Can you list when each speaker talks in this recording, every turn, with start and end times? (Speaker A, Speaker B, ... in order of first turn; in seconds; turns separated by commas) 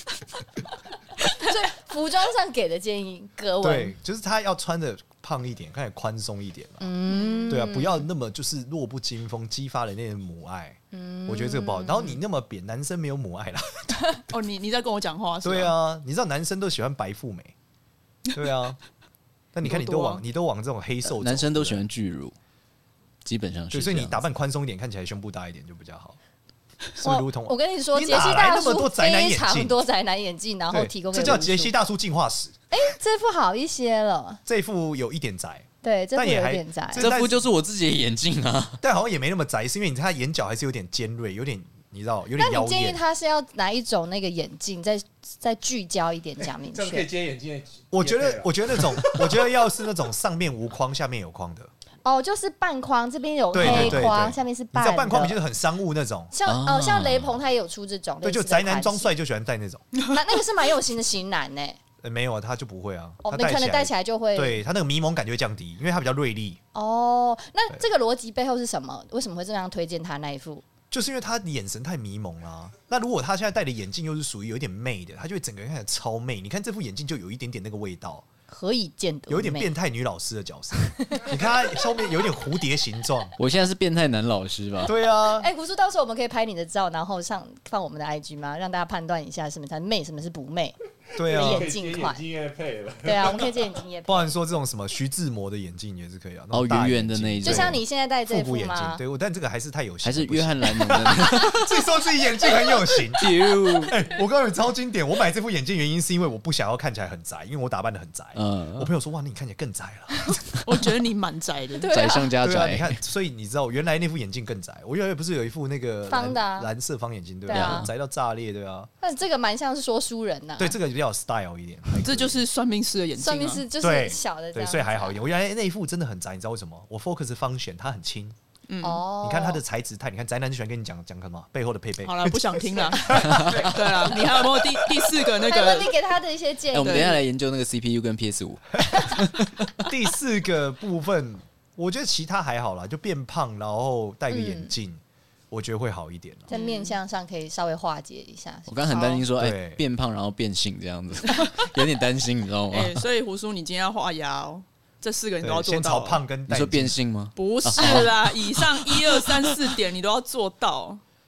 Speaker A: 1.3-3.9, Speaker B: 3.6-6.9, Speaker A: 6.8-8.1, Speaker C: 7.1-7.6, Speaker B: 7.5-14.2, Speaker A: 10.9-12.2, Speaker C: 14.3-15.7, Speaker B: 15.4-17.5, Speaker B: 18.3-18.8, Speaker B: 19.5-21.8, Speaker C: 19.6-20.2, Speaker D: 21.0-22.3, Speaker D: 23.2-24.2, Speaker B: 23.7-26.2, Speaker B: 27.0-29.8, Speaker A: 27.0-31.7, Speaker B: 30.7-32.6, Speaker A: 32.7-34.4, Speaker B: 34.5-37.4, Speaker A: 35.8-37.0, Speaker D: 36.9-38.8, Speaker B: 38.8-43.0, Speaker A: 42.4-47.1, Speaker E: 46.4-49.4, Speaker B: 47.9-51.7, Speaker A: 52.0-55.4, Speaker B: 53.5-56.3, Speaker D: 53.5-54.2, Speaker A: 56.3-59.1, Speaker D: 56.5-57.4, Speaker B: 58.2-59.9, Speaker A: 60.0-61.8, Speaker B: 62.0-66.6, Speaker A: 63.2-64.6, Speaker A: 66.7-70.6, Speaker B: 70.9-78.2, Speaker A: 78.5-79.7, Speaker B: 79.3-83.3, Speaker D: 83.4-84.9, Speaker B: 84.8-85.5, Speaker A: 85.3-90.8, Speaker B: 91.2-91.7, Speaker E: 91.2-93.6, Speaker A: 91.3-92.2, Speaker A: 93.0-94.3, Speaker B: 94.0-103.3, Speaker D: 96.5-97.8, Speaker A: 97.4-99.0, Speaker D: 100.0-101.7, Speaker D: 103.1-103.9, Speaker B: 103.8-110.4, Speaker D: 108.3-108.9, Speaker C: 110.6-111.9, Speaker A: 111.8-112.3, Speaker D: 111.9-113.0, Speaker B: 112.4-118.9, Speaker A: 116.1-116.7, Speaker A: 117.5-117.9, Speaker D: 117.5-117.9, Speaker A: 119.0-120.8, Speaker B: 120.6-122.4, Speaker C: 122.0-123.6, Speaker A: 123.2-125.2, Speaker B: 123.8-128.3, Speaker C: 128.7-129.0, Speaker A: 128.8-129.6, Speaker B: 129.2-135.0, Speaker C: 132.0-135.9, Speaker D: 133.2-133.7, Speaker A: 135.4-137.2, Speaker D: 136.7-139.8, Speaker C: 136.8-137.2, Speaker B: 139.8-146.5, Speaker A: 144.3-144.7, Speaker A: 146.5-149.2, Speaker C: 146.5-147.0, Speaker D: 148.7-153.0, Speaker C: 148.9-149.2, Speaker B: 149.3-149.8, Speaker C: 152.7-156.2, Speaker B: 155.4-157.0, Speaker D: 156.5-159.5, Speaker C: 157.3-161.0